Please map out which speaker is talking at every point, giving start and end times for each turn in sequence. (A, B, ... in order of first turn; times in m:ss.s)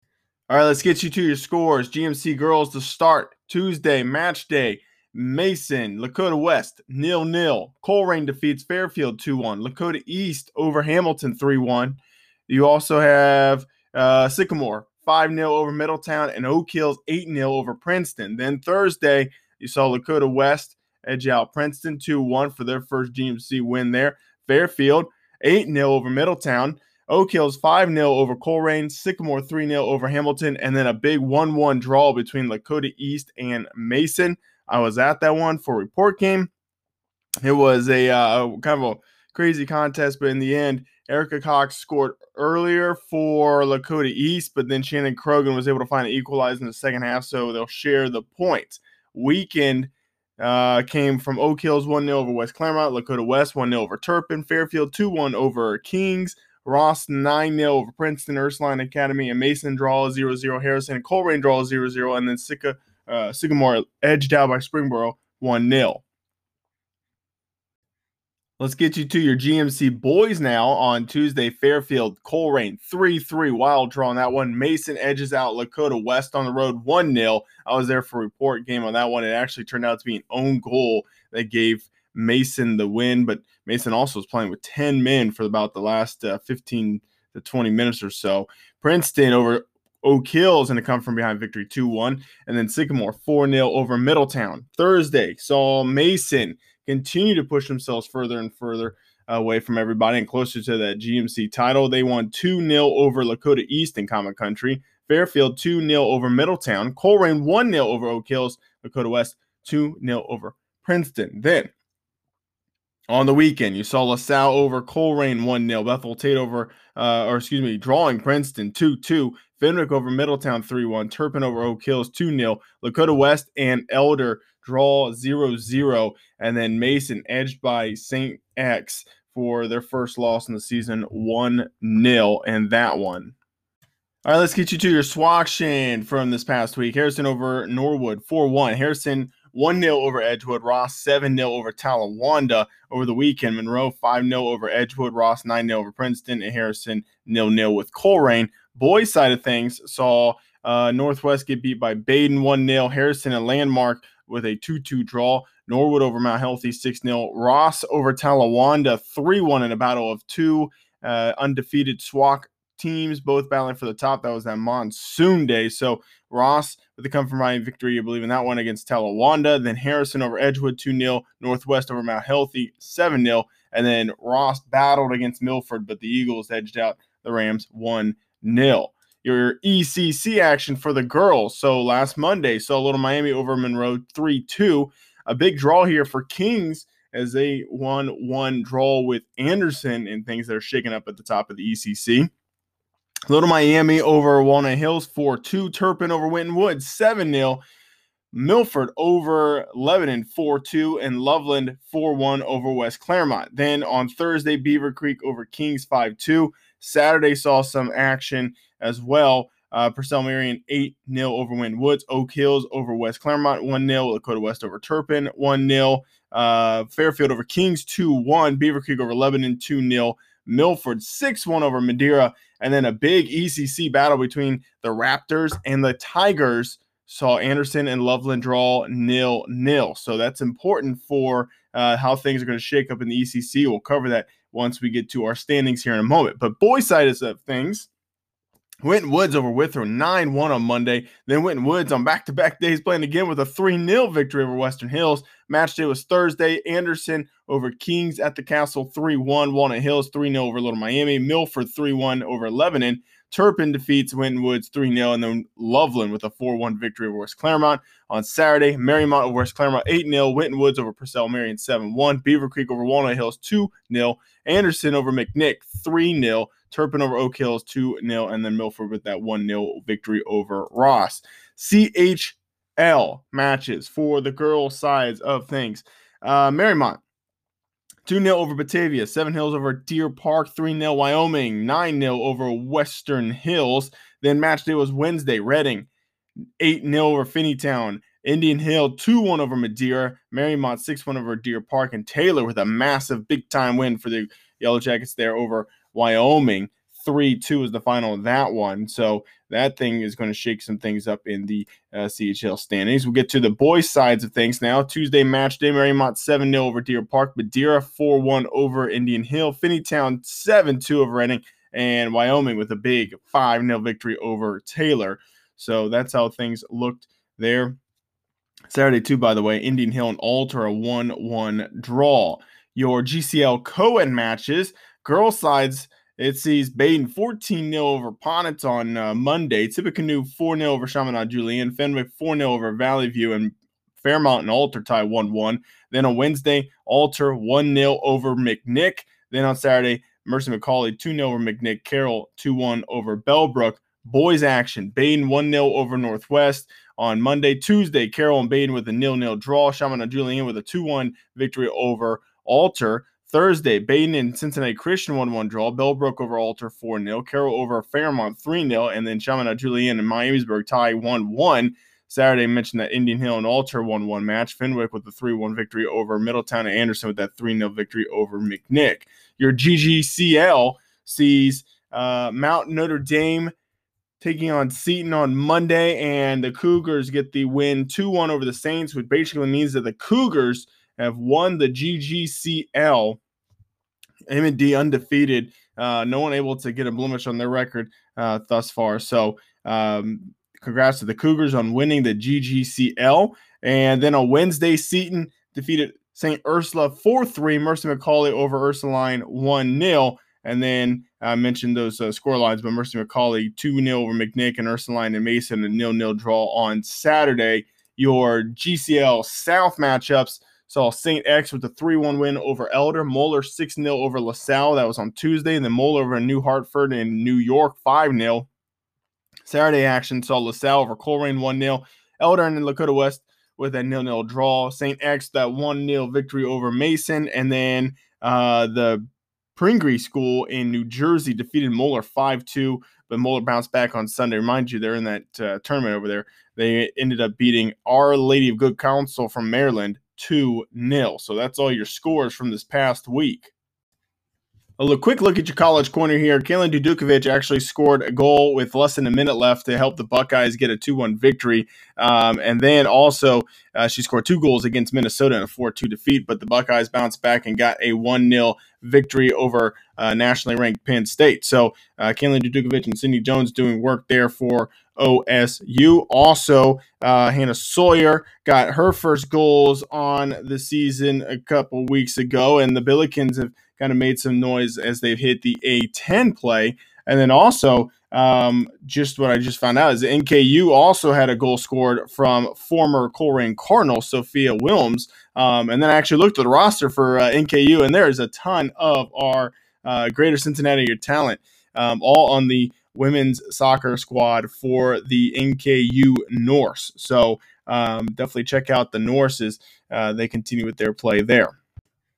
0:00.5-0:36.5 A
0:37.4-1:06.0 A
1:08.6-1:51.7 A
1:53.1-2:13.4 A
2:14.2-3:12.3 A
3:13.3-3:17.6 A
3:18.3-3:57.9 A
3:58.8-4:37.0 A
4:38.1-4:45.9 A
4:46.6-5:17.8 A
5:18.7-6:13.5 A
6:14.2-6:23.2 A
6:24.3-6:58.5 A
6:59.5-7:23.5 A
7:24.8-8:21.6 A